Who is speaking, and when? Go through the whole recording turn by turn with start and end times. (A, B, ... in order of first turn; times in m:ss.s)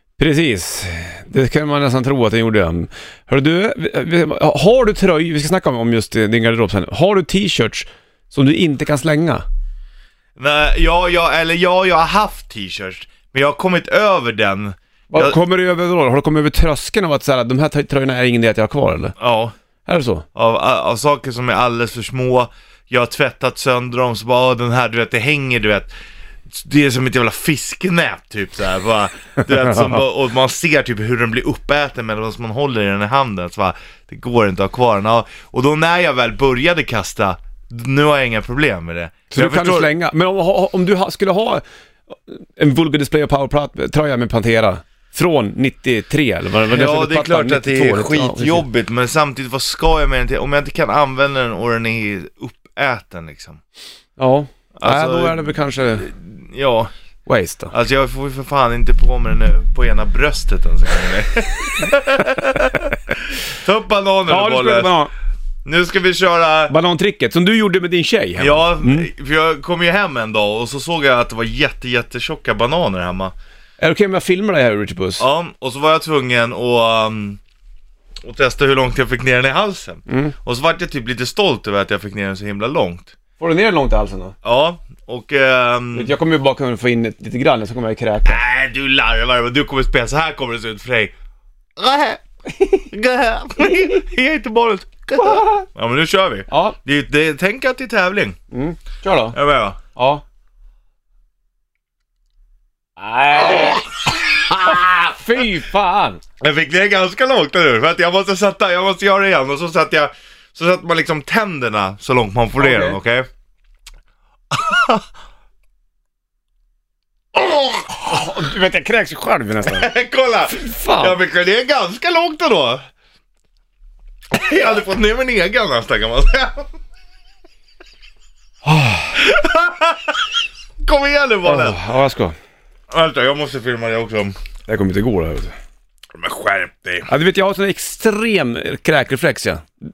0:00.2-0:09.4 A
0:10.4-0:15.4 B
0:15.1-0:19.1 A
0:19.2-0:19.5 B
0:19.8-0:20.2 A
0:20.3-0:25.9 B
0:26.5-0:39.9 B
0:39.3-0:48.6 A
0:46.6-0:53.6 B
0:54.2-0:56.1 A
0:54.8-0:56.9 B
0:57.3-0:57.7 A
0:57.7-1:04.9 B
1:04.3-1:05.1 A
1:05.6-1:06.7 B
1:06.7-1:09.1 A
1:08.4-1:13.3 B
1:13.8-1:15.2 A
1:15.2-1:17.4 B
1:18.2-1:23.1 B
1:20.1-1:20.3 A
1:23.4-1:24.3 A
1:24.4-1:26.1 B
1:25.9-1:28.4 A
1:28.2-1:31.1 B
1:31.8-1:38.4 B
1:36.5-1:36.8 A
1:38.5-1:39.4 A
1:39.3-1:39.8 B
1:39.9-1:40.2 A
1:43.0-1:43.9 A
1:44.6-1:46.2 A
1:46.4-1:53.3 B
1:52.6-1:53.0 A
1:54.5-1:55.0 B
1:57.4-1:57.9 B
1:58.0-1:59.9 A
1:59.6-2:02.8 B
2:00.5-2:01.2 A
2:04.3-2:06.7 B
2:08.6-2:09.2 A
2:09.2-2:10.2 B
2:10.8-2:11.8 B
2:11.4-2:12.3 A
2:12.9-2:14.4 B
2:14.7-2:15.5 A
2:16.2-2:17.1 B
2:17.1-2:19.6 A